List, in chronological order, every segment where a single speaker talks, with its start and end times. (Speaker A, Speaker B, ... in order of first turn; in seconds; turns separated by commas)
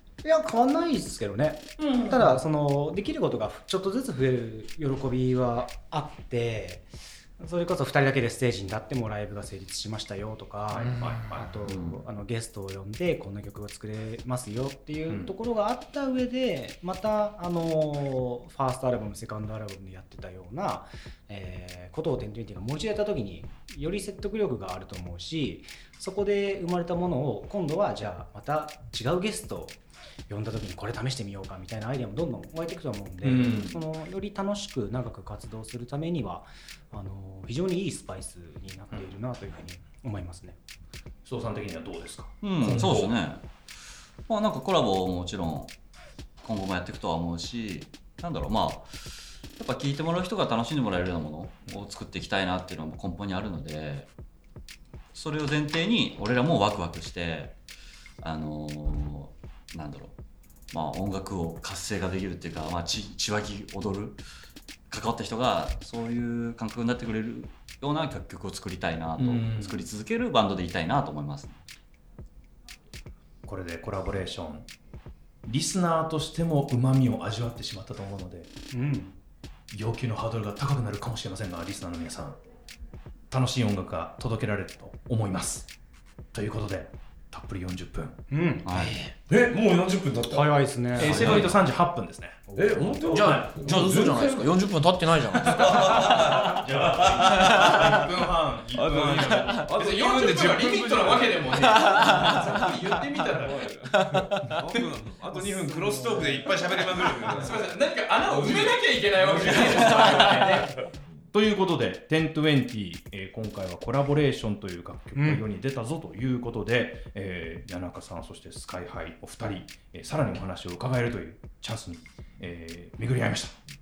Speaker A: 0.2-40.6, Speaker B: 1.8-2.4, Speaker B: 10.7-11.7, Speaker C: 10.8-11.4, Speaker D: 11.7-12.0, Speaker B: 15.1-15.3, Speaker B: 33.2-33.8, Speaker B: 41.2-43.1, Speaker D: 42.4-43.5, Speaker D: 44.3-45.7, Speaker D: 46.4-54.1, Speaker D: 55.1-57.6, Speaker D: 58.2-60.1, Speaker D: 60.7-64.2, Speaker D: 64.9-71.6, Speaker B: 69.2-69.8, Speaker B: 73.5-74.7, Speaker B: 75.4-78.5, Speaker A: 78.7-79.2, Speaker B: 79.7-82.4, Speaker B: 83.3-85.7, Speaker B: 86.3-88.2, Speaker A: 88.3-88.6, Speaker D: 88.6-89.0, Speaker C: 88.7-89.1, Speaker E: 89.3-91.5, Speaker A: 90.3-91.5, Speaker B: 91.0-92.5, Speaker A: 92.5-93.0, Speaker E: 92.5-94.6, Speaker C: 93.1-95.9, Speaker E: 95.3-98.0, Speaker B: 95.7-103.7, Speaker C: 97.3-97.6, Speaker E: 98.7-101.5, Speaker C: 101.5-102.7, Speaker E: 103.2-111.2, Speaker C: 103.9-104.4, Speaker B: 105.4-106.5, Speaker B: 107.2-123.6, Speaker C: 109.6-110.3, Speaker A: 115.2-115.4